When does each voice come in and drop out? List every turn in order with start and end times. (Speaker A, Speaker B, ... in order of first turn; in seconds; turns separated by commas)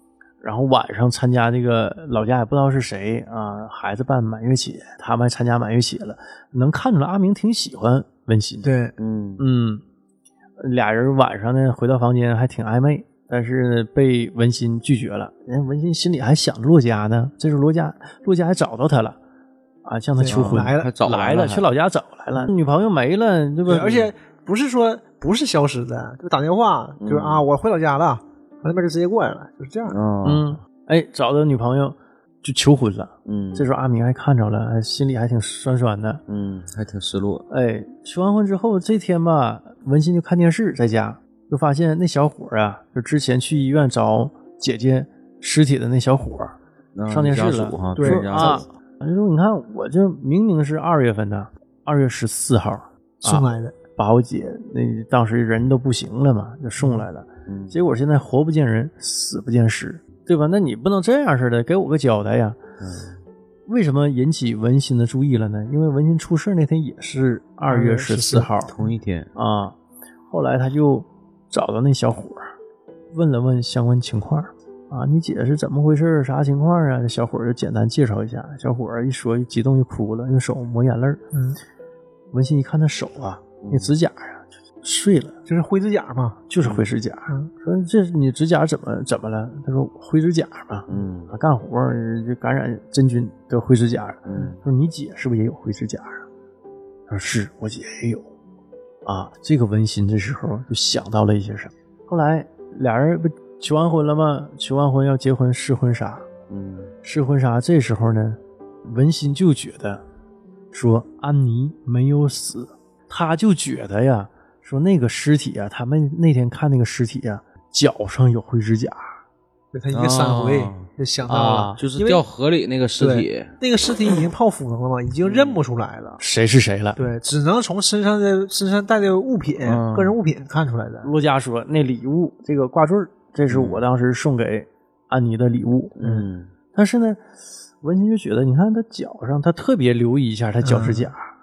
Speaker A: 0.4-8.7, Speaker B: 8.6-8.9, Speaker C: 9.0-9.4, Speaker A: 9.4-9.8, Speaker A: 10.6-19.2, Speaker A: 19.8-24.1, Speaker B: 20.2-20.9, Speaker C: 20.3-21.7, Speaker B: 23.6-30.0, Speaker C: 27.0-27.4, Speaker C: 29.9-30.5, Speaker A: 30.2-36.2, Speaker C: 33.2-33.7, Speaker C: 36.3-37.5, Speaker A: 37.5-46.5, Speaker C: 46.9-48.6, Speaker A: 47.1-53.4, Speaker B: 48.0-48.6, Speaker B: 53.2-53.7, Speaker A: 54.0-62.6, Speaker B: 56.8-57.0, Speaker C: 57.5-57.8, Speaker C: 62.8-63.2, Speaker A: 63.7-68.7, Speaker B: 67.6-68.5, Speaker C: 68.7-69.3, Speaker A: 69.3-69.8, Speaker A: 70.3-72.5, Speaker A: 73.1-81.2, Speaker B: 81.3-81.6, Speaker A: 82.3-85.3, Speaker C: 83.6-83.9, Speaker B: 85.5-86.4, Speaker A: 86.5-96.2, Speaker C: 86.6-86.9, Speaker C: 90.9-91.3, Speaker C: 94.2-94.6, Speaker A: 97.1-98.3, Speaker A: 99.0-106.2, Speaker C: 106.5-106.9, Speaker A: 107.0-110.0, Speaker A: 110.7-119.1, Speaker B: 119.7-122.2, Speaker C: 119.9-120.9, Speaker A: 121.3-121.8, Speaker C: 121.8-123.5, Speaker B: 123.0-126.2, Speaker C: 125.2-125.6, Speaker A: 126.2-127.0, Speaker B: 127.0-131.1, Speaker C: 129.6-130.2, Speaker A: 131.0-136.0, Speaker C: 133.5-133.8, Speaker C: 135.9-136.5, Speaker A: 136.7-137.2, Speaker A: 137.8-141.3, Speaker B: 140.6-141.1